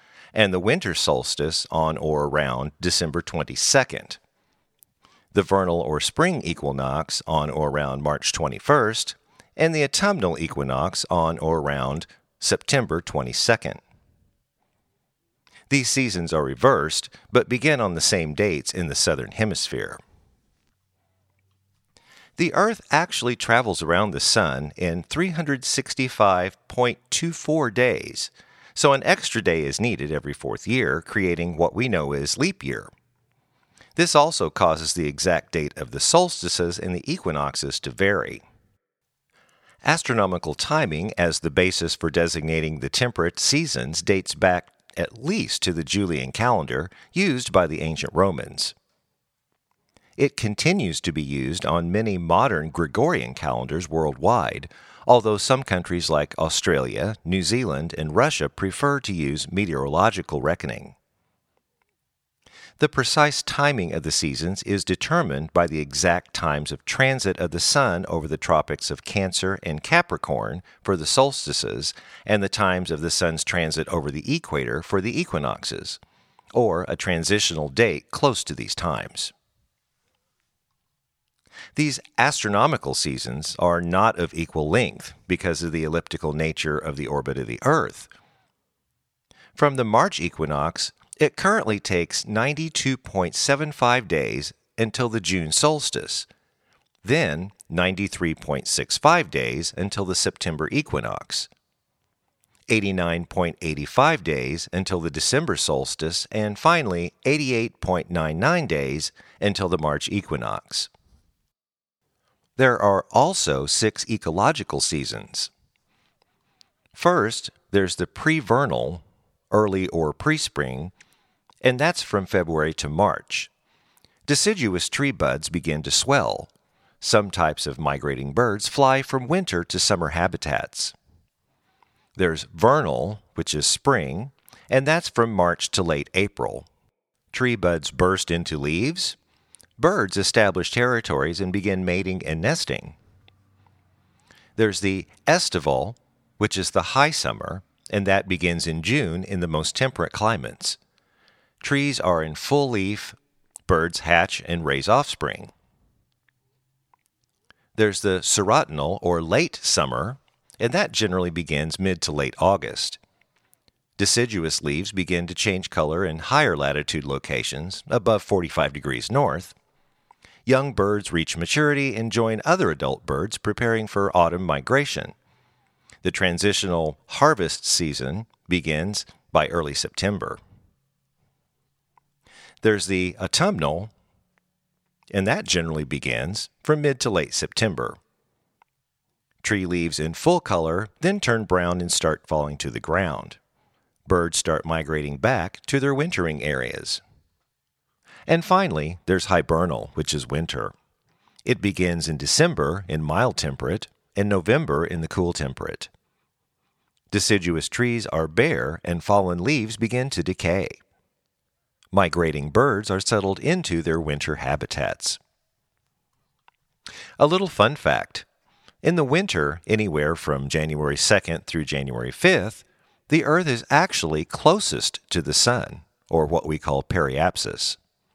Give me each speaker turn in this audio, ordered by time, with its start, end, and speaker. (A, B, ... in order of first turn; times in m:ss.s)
0:00.3-0:04.2 A
0:05.3-0:13.8 A
0:15.7-0:20.0 A
0:22.4-0:32.9 A
0:34.0-0:38.4 A
0:39.8-0:48.7 A
0:50.2-1:00.9 A
1:02.8-1:16.0 A
1:16.5-1:19.3 A
1:21.8-1:28.1 A
1:29.5-1:36.2 A
1:37.0-1:41.5 A
1:42.7-1:50.9 A
1:52.6-1:55.5 A
1:56.9-2:00.9 A
2:01.6-2:03.5 A
2:04.2-2:06.5 A
2:07.0-2:10.9 A
2:12.2-2:16.7 A
2:17.3-2:19.2 A
2:19.8-2:23.0 A
2:24.6-2:30.8 A
2:31.6-2:35.5 A
2:37.7-2:43.0 A
2:44.0-2:49.5 A
2:50.4-2:55.1 A
2:56.0-3:00.4 A
3:02.6-3:03.9 A
3:05.1-3:08.0 A
3:09.4-3:13.4 A
3:14.0-3:17.0 A
3:18.3-3:20.7 A
3:21.4-3:25.9 A
3:27.1-3:30.8 A
3:31.9-3:35.2 A
3:37.2-3:38.2 A
3:38.8-3:47.8 A